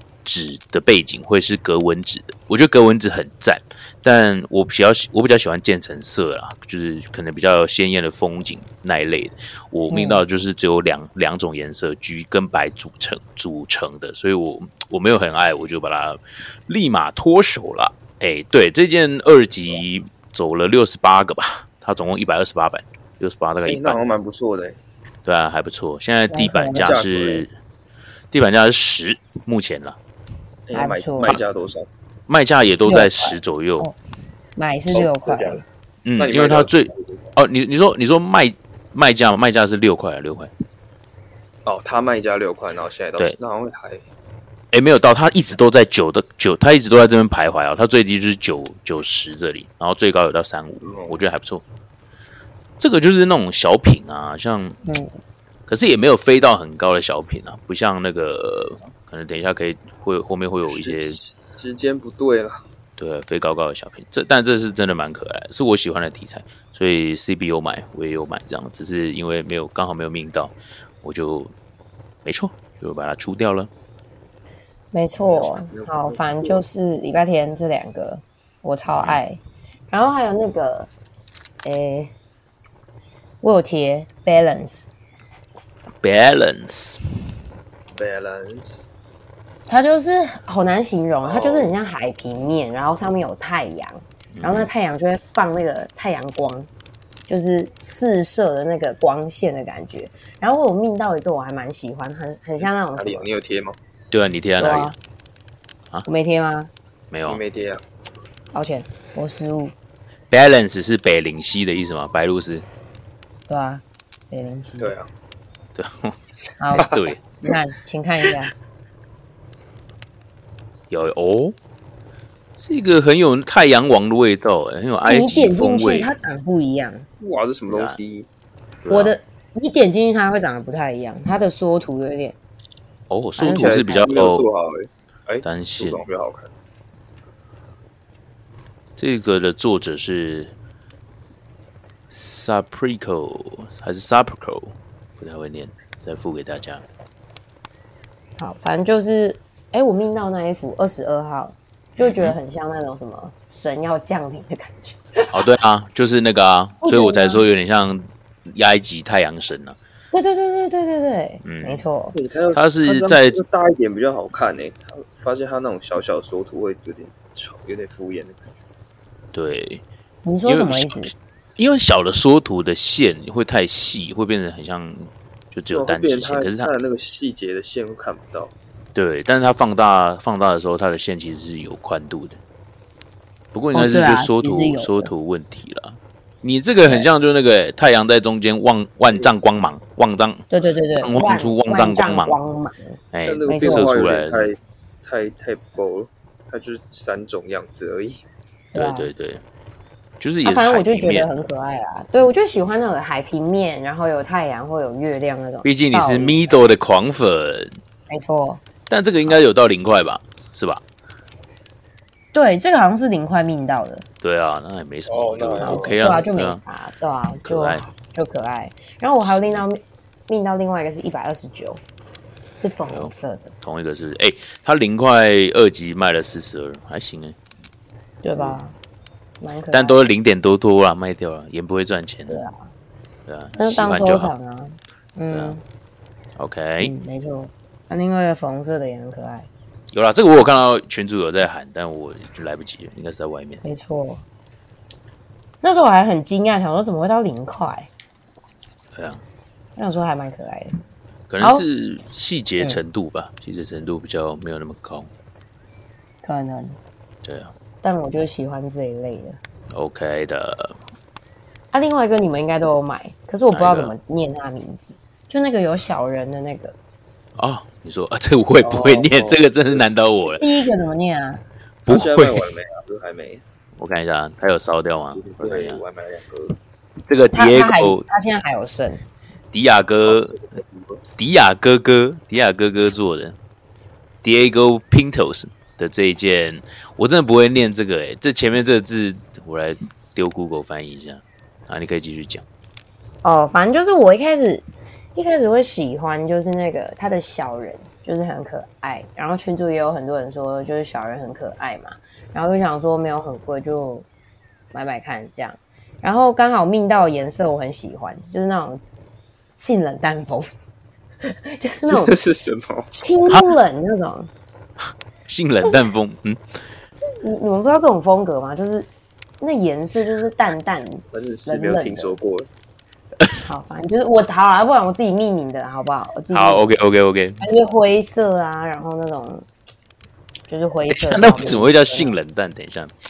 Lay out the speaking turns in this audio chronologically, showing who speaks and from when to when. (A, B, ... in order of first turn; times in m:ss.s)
0:00.2-0:24.0 A
0:09.9-0:10.2 B
0:23.6-0:24.8 C
0:25.2-0:27.5 A
0:26.3-0:26.8 B
0:26.7-0:27.4 C
0:28.3-0:30.0 A
0:30.7-0:31.9 C
0:30.7-0:31.2 B
0:32.3-0:33.9 A
0:32.9-0:33.9 B
0:34.6-0:35.6 B
0:34.9-0:35.6 C
0:36.0-0:40.5 A
0:36.2-0:37.3 C
0:41.6-0:44.0 C
0:44.7-0:51.6 A
0:50.8-0:51.2 C
0:52.8-0:54.8 A
0:54.8-0:55.1 B
0:55.7-1:01.2 A
1:00.7-1:02.6 C
1:03.0-1:11.5 A
1:12.2-1:13.7 A
1:14.9-1:20.9 B
1:15.2-1:16.6 C
1:18.9-1:19.2 A
1:21.6-1:22.1 B
1:23.4-1:24.9 B
1:26.0-1:27.0 A
1:27.9-1:28.9 C
1:29.7-1:36.7 B
1:31.2-1:31.7 C
1:34.4-1:34.7 A
1:37.3-1:43.3 B
1:42.6-1:43.8 C
1:44.1-1:44.9 A
1:44.6-1:44.9 B
1:46.1-1:46.7 B
1:47.1-1:47.4 A
1:47.3-1:47.8 C
1:48.5-1:49.7 B
1:50.3-1:52.6 A
1:53.5-1:54.9 B
1:54.8-1:55.1 C
1:55.8-1:56.2 A
1:56.6-1:58.5 B
1:56.7-1:57.2 A
2:00.9-2:01.6 A
2:02.6-2:06.1 A
2:05.0-2:07.1 B
2:07.2-2:08.3 C
2:07.7-2:08.0 A
2:08.8-2:09.1 A
2:08.9-2:12.4 B
2:13.1-2:14.4 A
2:13.4-2:14.1 B
2:13.5-2:16.5 C
2:15.4-2:16.0 A
2:19.0-2:20.5 A
2:22.1-2:26.8 A
2:28.4-2:35.4 B
2:32.0-2:32.4 A
2:35.3-2:39.8 A
2:36.8-2:37.4 B
2:40.1-2:42.1 B
2:41.4-2:41.8 A
2:42.1-2:48.6 C
2:42.5-2:43.4 A
2:49.3-2:49.8 A
2:50.2-2:51.1 B
2:50.4-2:56.7 A
2:55.7-2:58.5 C
2:58.9-3:02.4 A
3:03.5-3:12.4 A
3:03.7-3:05.1 B
3:10.5-3:13.9 B
3:13.1-3:14.5 A
3:13.2-3:18.2 C
3:18.7-3:19.1 B
3:18.7-3:19.4 A
3:20.2-3:21.4 A
3:20.4-3:26.6 B
3:25.6-3:27.8 A
3:28.1-3:28.6 B
3:28.9-3:30.8 A
3:32.3-3:34.0 B
3:34.2-3:36.6 A
3:35.1-3:36.0 C
3:35.6-3:41.8 B
3:37.4-3:37.8 A
3:39.2-3:39.6 A
3:42.6-3:43.5 B
3:42.9-3:47.4 A
3:48.2-3:48.7 B
3:49.4-3:50.0 B
3:49.7-3:52.4 A
3:52.3-3:52.6 B
3:53.3-3:54.3 A
3:53.6-3:55.6 B
3:55.3-3:55.6 A
3:56.4-3:56.9 A
3:56.8-3:59.5 B
3:59.9-4:03.6 A
4:03.6-4:04.2 B
4:05.6-4:07.9 B
4:08.9-4:09.2 A
4:09.8-4:10.8 B
4:11.3-4:15.1 A
4:11.4-4:11.6 B
4:16.2-4:16.7 B
4:17.2-4:17.5 A
4:17.8-4:19.4 B
4:19.7-4:20.8 A
4:21.7-4:26.7 B
4:23.5-4:23.9 A
4:27.4-4:30.4 A
4:28.6-4:29.1 B
4:29.1-4:29.8 C
4:30.4-4:31.4 B
4:31.9-4:32.4 A
4:31.9-4:33.4 C
4:33.8-4:35.8 A
4:35.1-4:36.6 C
4:37.1-4:38.0 A
4:37.3-4:39.0 B
4:39.5-4:40.4 A
4:40.0-4:41.0 C
4:41.2-4:43.4 A
4:44.2-4:52.4 A
4:53.2-4:54.6 B
4:55.1-5:04.1 B
5:04.7-5:08.8 B
5:09.6-5:10.5 B
5:11.2-5:12.1 B
5:11.8-5:12.9 C
5:12.9-5:14.3 B
5:14.8-5:16.4 A
5:17.0-5:18.9 B
5:19.4-5:22.1 B
5:21.1-5:22.5 C
5:23.2-5:23.5 A
5:23.5-5:26.7 B
5:26.3-5:27.4 A
5:27.4-5:29.4 B
5:30.5-5:32.2 B
5:30.9-5:32.9 A